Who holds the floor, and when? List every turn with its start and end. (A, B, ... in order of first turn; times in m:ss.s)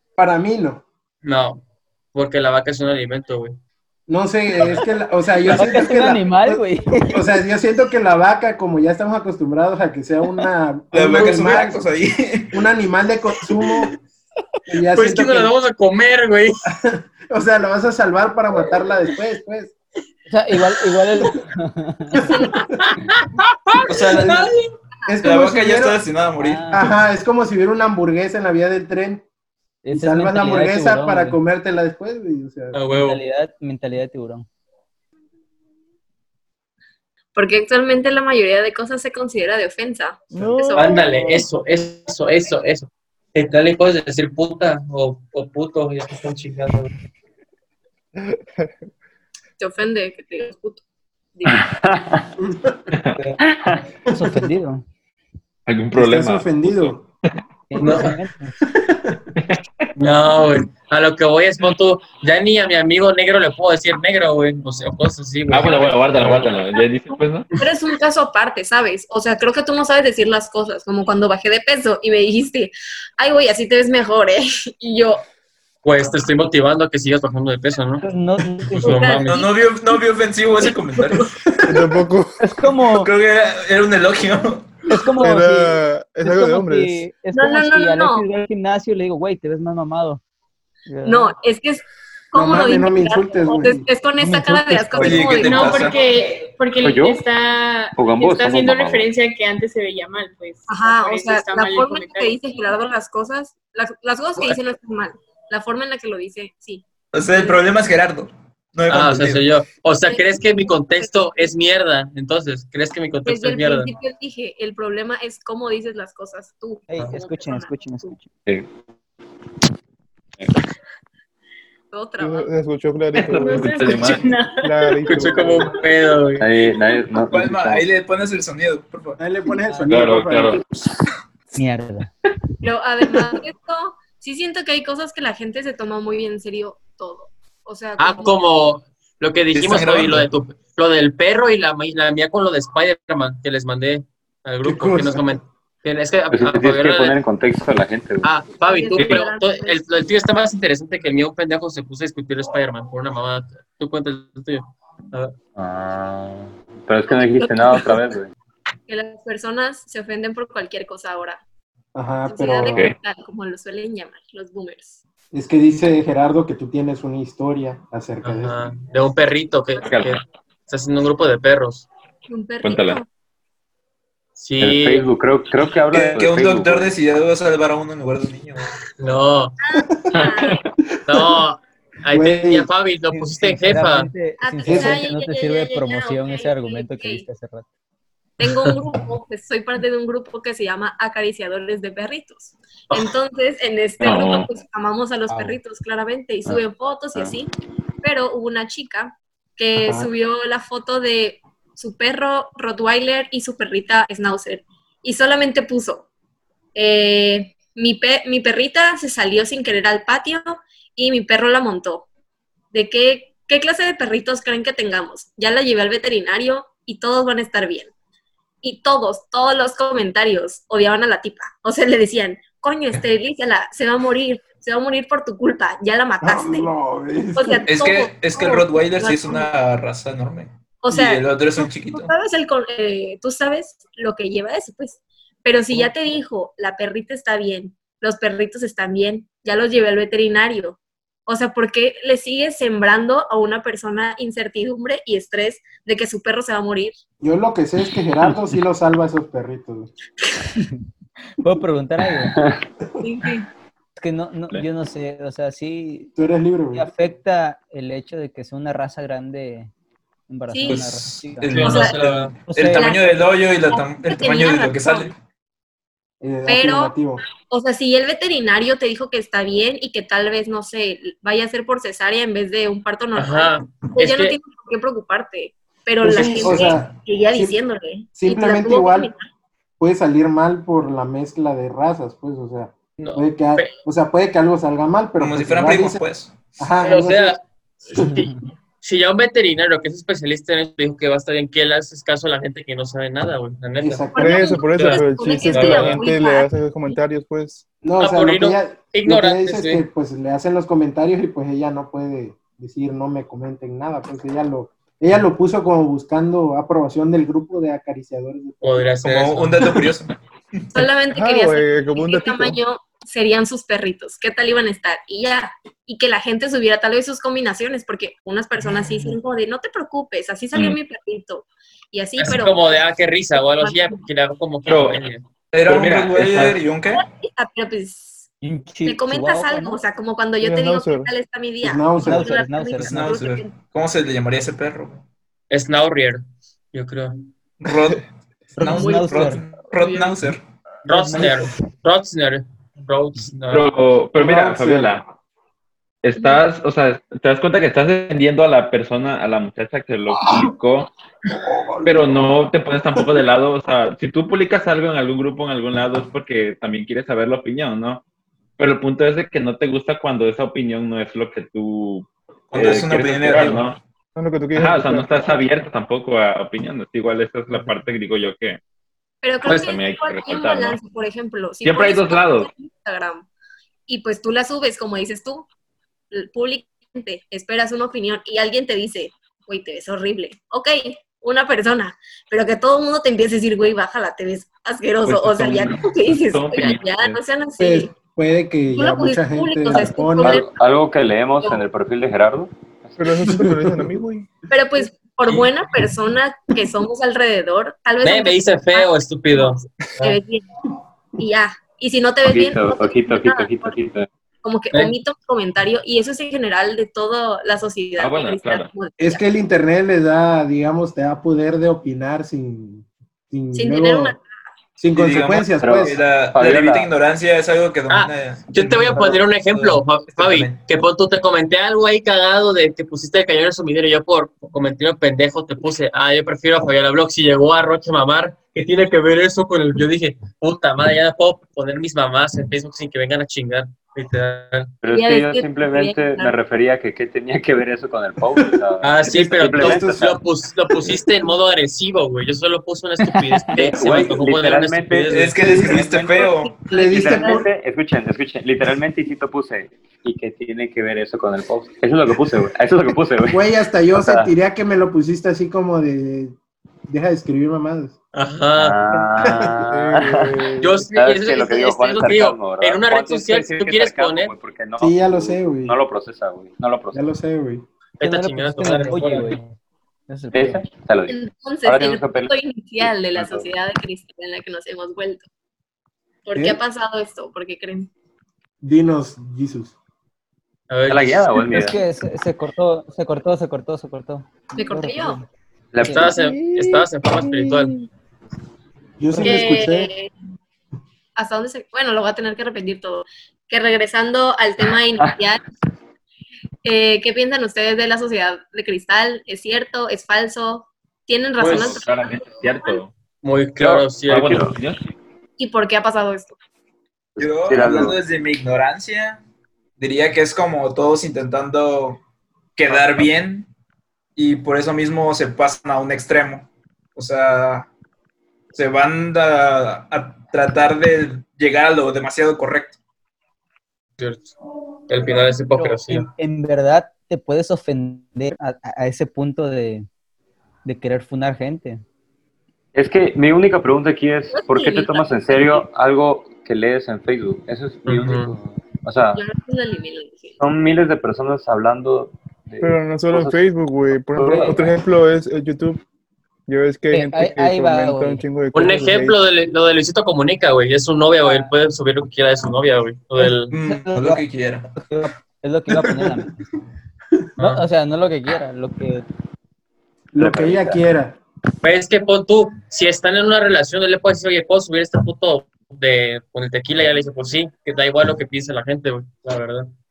0:00.2-0:00.8 A
0:01.2-0:01.6 B
0:02.1-0:03.6 B
0:04.1-0:11.8 A
0:05.4-0:07.2 C
0:10.9-0:12.6 D
0:12.5-0:13.9 A
0:14.7-0:15.5 A
0:14.9-0:16.5 B
0:16.7-0:19.7 A
0:20.3-0:22.3 C
0:22.1-0:22.7 E
0:23.9-0:24.6 D
0:24.2-0:24.5 A
0:25.1-0:26.0 A
0:25.2-0:26.9 D
0:26.4-0:27.0 C
0:26.7-0:29.2 A
0:29.8-0:31.4 C
0:29.9-0:32.8 A
0:32.7-0:33.2 B
0:33.0-0:34.5 C
0:37.3-0:41.4 E
0:40.3-0:41.4 F
0:40.8-0:46.9 B
0:49.6-0:50.8 E
0:51.4-0:51.8 E
0:51.5-0:52.2 G
0:53.4-0:53.8 G
0:54.1-0:54.8 C
0:55.7-0:56.9 H
0:55.9-0:57.0 A
0:57.7-0:58.5 C
0:57.8-0:58.2 B
1:00.0-1:06.5 B
1:05.5-1:07.5 H
1:07.6-1:15.2 E
1:15.8-1:18.0 B
1:18.0-1:19.2 C
1:18.8-1:19.4 B
1:18.8-1:20.0 E
1:19.3-1:21.6 D
1:20.6-1:21.2 E
1:21.7-1:22.4 F
1:22.4-1:23.1 C
1:22.9-1:24.9 D
1:24.9-1:30.2 C
1:25.2-1:27.1 F
1:27.3-1:28.2 E
1:30.9-1:31.3 C
1:31.0-1:36.0 E
1:32.3-1:33.8 A
1:34.2-1:34.8 F
1:34.9-1:36.0 D
1:35.3-1:42.4 I
1:36.8-1:37.2 G
1:38.0-1:39.1 G
1:40.7-1:47.7 E
1:47.1-1:49.5 D
1:48.9-1:53.9 B
1:50.0-1:51.5 E
1:53.2-1:58.1 E
1:56.9-1:58.3 C
2:01.9-2:02.5 E
2:02.2-2:04.0 F
2:03.2-2:04.3 H
2:03.3-2:05.3 I
2:04.6-2:05.8 F
2:05.1-2:06.5 B
2:06.4-2:07.9 G
2:07.3-2:09.2 D
2:09.2-2:10.6 A
2:09.6-2:09.9 C
2:09.9-2:10.6 H
2:11.5-2:12.1 C
2:12.6-2:18.3 E
2:18.0-2:27.2 B
2:19.5-2:20.3 D
2:24.6-2:25.4 A
2:26.3-2:28.3 G
2:28.2-2:35.3 B
2:28.6-2:29.8 E
2:35.6-2:38.3 G
2:37.1-2:38.0 E
2:38.9-2:41.4 E
2:41.9-2:42.9 A
2:42.3-2:45.0 E
2:45.3-2:48.6 A
2:48.2-2:51.9 B
2:49.8-2:50.2 H
2:52.3-2:53.0 E
2:52.6-2:53.0 H
2:54.4-2:55.1 B
2:54.6-2:56.9 G
2:55.9-2:58.7 D
2:59.0-2:59.5 B
2:59.6-3:00.6 E
3:00.1-3:00.6 H
3:01.0-3:04.1 B
3:02.1-3:02.7 A
3:03.1-3:07.7 C
3:04.4-3:07.3 E
3:04.6-3:05.0 A
3:08.4-3:17.5 E
3:14.0-3:14.5 H
3:18.0-3:26.1 E
3:19.8-3:20.1 A
3:26.7-3:32.1 E
3:32.7-3:37.9 E
3:38.6-3:46.7 E
3:46.2-3:47.6 A
3:47.3-3:49.5 E
3:47.6-3:52.1 D
3:50.8-4:07.0 E
4:07.2-4:09.9 A
4:11.4-4:12.4 C
4:12.3-4:12.6 G
4:13.0-4:13.5 E
4:14.0-4:16.1 C
4:16.2-4:16.9 A
4:16.7-4:19.7 C
4:20.3-4:21.6 C
4:20.5-4:20.8 E
4:20.6-4:25.1 D
4:21.5-4:22.4 B
4:21.6-4:22.0 E
4:22.5-4:22.9 C
4:22.7-4:25.1 E
4:26.2-4:27.2 A
4:26.5-4:39.2 E
4:33.1-4:34.4 B
4:36.0-4:37.6 A
4:36.2-4:36.9 D
4:38.1-4:39.1 A
4:39.8-4:46.0 A
4:43.0-4:43.7 B
4:45.2-4:46.4 D
4:46.6-4:47.4 A
4:46.8-4:48.3 B
4:48.1-4:48.4 C
4:48.8-4:54.0 B
4:53.8-4:54.5 A
4:54.2-4:57.0 E
4:54.2-4:57.6 F
4:54.7-4:56.0 B
4:57.8-5:08.9 A
4:58.0-4:59.8 B
5:08.6-5:09.8 B
5:09.0-5:10.7 D
5:10.7-5:22.8 E
5:11.1-5:12.6 F
5:22.2-5:25.2 B
5:23.4-5:24.0 E
5:24.6-5:25.0 H
5:25.5-5:27.0 D
5:25.7-5:26.5 H
5:26.9-5:28.3 E
5:28.4-5:29.8 C
5:28.8-5:33.6 E
5:30.4-5:31.1 F
5:31.6-5:32.3 A
5:32.0-5:33.1 C
5:32.7-5:35.0 D
5:35.5-5:36.2 B
5:36.7-5:37.2 B
5:37.6-5:38.0 D
5:38.6-5:39.5 C
5:38.6-5:40.4 D
5:38.6-5:40.1 E
5:40.8-5:43.7 B
5:40.9-5:41.6 C
5:43.5-5:45.0 H
5:44.2-5:45.0 A
5:46.0-5:50.9 H
5:46.2-5:46.4 E
5:51.6-5:52.3 A
5:51.8-5:58.0 H
5:58.6-6:03.8 H
6:02.5-6:03.8 D
6:04.1-6:05.3 F
6:04.5-6:08.6 H
6:09.2-6:13.2 E
6:09.4-6:10.8 H
6:11.6-6:12.5 H
6:13.9-6:15.5 E
6:16.1-6:27.9 E
6:25.0-6:27.2 H
6:27.6-6:30.4 A
6:28.7-6:30.6 E
6:29.7-6:33.0 G
6:33.0-6:34.4 F
6:33.3-6:33.6 A
6:34.5-6:40.4 E
6:38.0-6:40.2 B
6:41.2-6:43.8 E
6:42.2-6:44.1 G
6:44.4-6:49.2 E
6:48.0-6:48.7 H
6:49.0-6:54.2 A
6:53.5-6:54.2 E
6:54.8-6:56.0 A
6:54.9-7:00.6 D
6:55.6-6:56.9 G
6:57.9-7:14.7 B
7:14.8-7:20.0 G
7:14.9-7:16.3 E
7:18.8-7:25.3 B
7:19.5-7:20.2 A
7:23.0-7:23.5 C
7:23.6-7:25.1 G
7:25.1-7:26.6 D
7:25.4-7:26.0 A
7:25.6-7:26.2 G
7:26.4-7:27.4 E
7:26.6-7:27.5 A
7:26.8-7:34.3 G
7:33.3-7:36.4 A
7:36.9-7:38.0 A
7:38.1-7:38.8 B
7:38.6-7:40.3 G
7:39.2-7:39.5 A
7:39.7-7:40.8 F
7:40.6-7:44.3 B
7:40.9-7:47.0 G
7:44.8-7:45.8 A
7:46.9-7:47.6 A
7:48.0-7:49.4 B
7:48.0-7:49.6 C
7:50.1-7:50.6 C
7:50.3-7:53.5 G
7:51.1-7:55.2 E
7:56.2-7:57.9 E
7:56.3-7:56.6 A
7:58.6-7:59.7 A
8:00.7-8:01.5 B
8:00.9-8:01.8 G
8:01.5-8:05.2 C
8:04.5-8:05.2 E
8:05.7-8:06.1 G
8:05.8-8:07.9 C
8:05.8-8:07.7 B
8:09.0-8:09.9 A
8:09.1-8:09.6 C
8:09.2-8:10.1 E
8:11.2-8:15.4 E
8:16.6-8:22.8 E
8:21.4-8:21.8 B
8:21.4-8:22.9 H
8:23.2-8:24.6 B
8:23.6-8:24.5 G
8:24.1-8:24.9 H
8:25.4-8:26.4 E
8:27.2-8:28.0 G
8:27.2-8:29.2 D
8:29.8-8:32.0 D
8:32.6-8:33.5 D
8:32.7-8:33.0 G
8:34.2-8:37.7 D
8:38.5-8:42.8 D
8:44.0-8:44.3 B
8:44.9-8:46.1 B
8:45.6-8:49.8 C
8:50.6-8:51.8 C
8:52.7-8:59.2 G
8:54.3-8:55.6 E
8:57.8-8:58.3 B
8:59.1-9:00.4 E
9:00.4-9:03.4 G
9:02.6-9:05.8 F
9:04.1-9:04.7 G
9:04.2-9:04.6 C
9:06.5-9:09.2 F
9:06.9-9:08.2 C
9:08.5-9:13.5 B
9:11.2-9:11.5 C
9:13.2-9:16.3 C
9:13.5-9:14.7 D
9:17.4-9:17.6 B
9:17.4-9:19.0 C
9:20.1-9:21.2 A
9:20.2-9:20.8 G
9:21.6-9:29.7 B